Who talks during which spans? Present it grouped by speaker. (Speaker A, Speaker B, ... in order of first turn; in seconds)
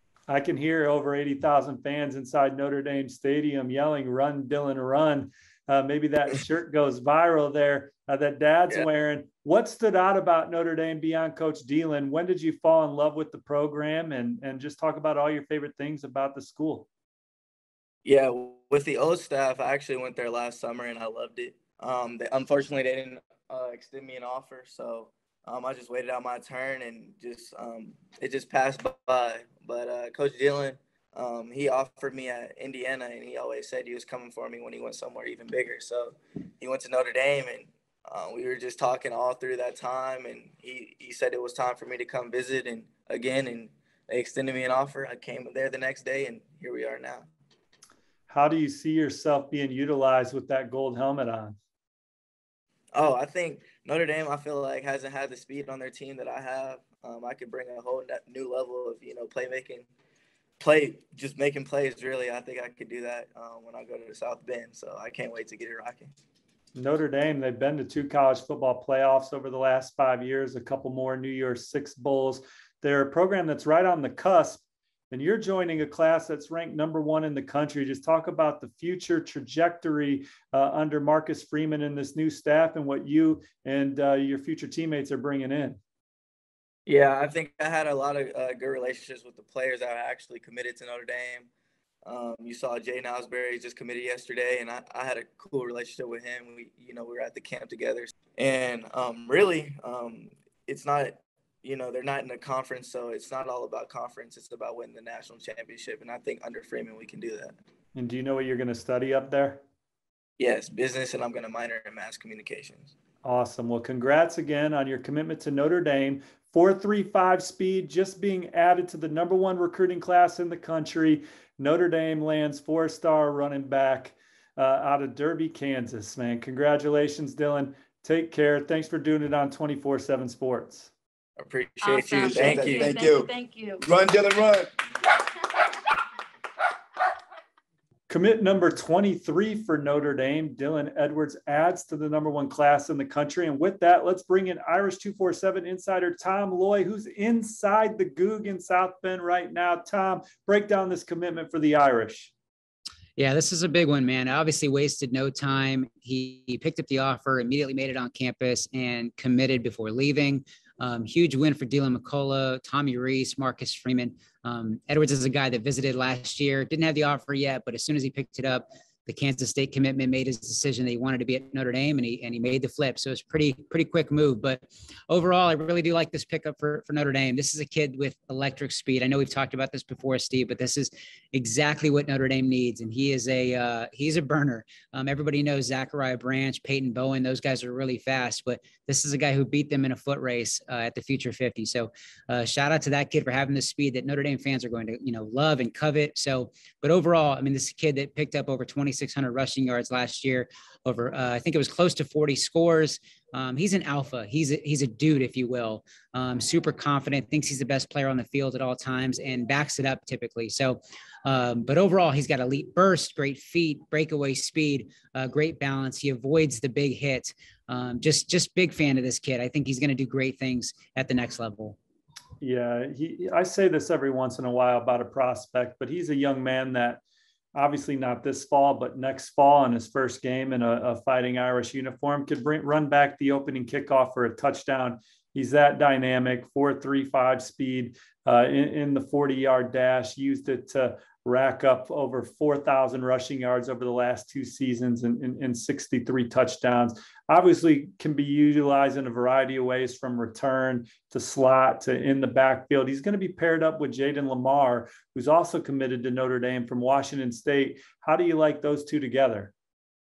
Speaker A: 0.3-16.9, 48.3-51.6, 66.8-85.8, 107.9-109.6, 113.2-130.9, 138.1-152.3, 222.4-227.0, 227.5-259.5
Speaker B: 18.0-47.3, 52.9-59.9, 60.6-66.1, 86.9-91.5, 92.0-107.5, 110.4-112.9, 131.4-133.0
Speaker C: 131.8-133.9
Speaker D: 132.2-133.3, 133.8-134.7
Speaker E: 153.2-221.8